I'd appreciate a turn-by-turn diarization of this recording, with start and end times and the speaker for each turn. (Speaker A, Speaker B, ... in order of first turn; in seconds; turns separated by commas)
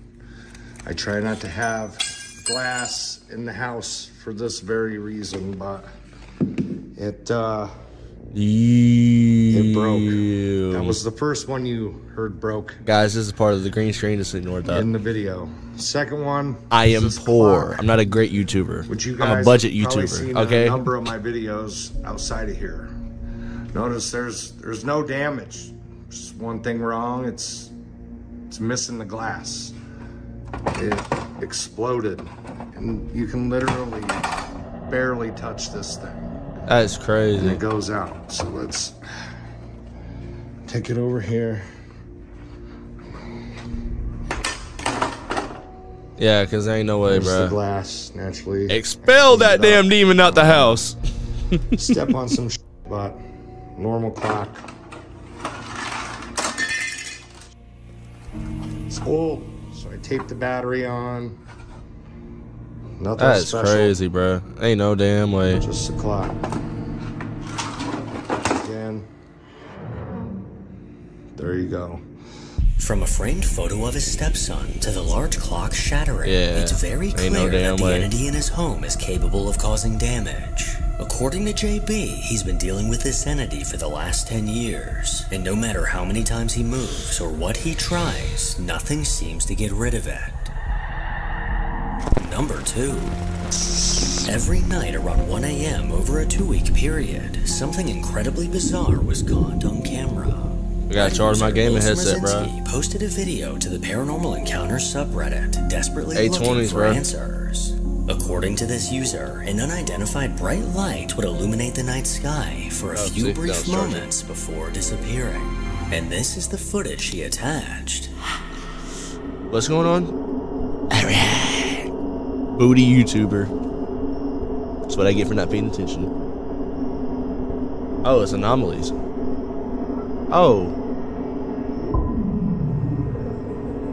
Speaker A: 0.8-5.9, Speaker A: 7.0-7.7, Speaker B: 8.3-11.0, Speaker A: 9.5-12.8, Speaker B: 12.8-14.9, Speaker A: 14.7-17.9, Speaker B: 16.7-20.8, Speaker A: 18.9-22.9, Speaker A: 23.7-27.7, Speaker A: 28.5-29.8, Speaker A: 30.7-34.3, Speaker A: 34.9-36.1, Speaker B: 36.7-37.6, Speaker A: 37.4-39.0, Speaker A: 40.7-41.7, Speaker B: 46.2-47.6, Speaker A: 47.1-50.6, Speaker B: 48.7-51.0, Speaker A: 51.7-53.2, Speaker A: 53.8-54.6, Speaker A: 58.9-61.4, Speaker A: 63.0-64.0, Speaker B: 63.2-65.6, Speaker A: 65.5-66.4, Speaker A: 68.5-69.1, Speaker A: 71.4-72.0, Speaker C: 72.8-90.5, Speaker B: 76.2-78.1, Speaker C: 92.1-93.2, Speaker C: 94.2-118.1, Speaker B: 100.9-102.5, Speaker B: 106.1-107.1, Speaker B: 112.9-114.1, Speaker B: 119.5-120.1, Speaker B: 120.9-121.9, Speaker B: 122.5-123.5, Speaker B: 124.9-126.1, Speaker B: 128.0-128.9, Speaker B: 130.3-130.7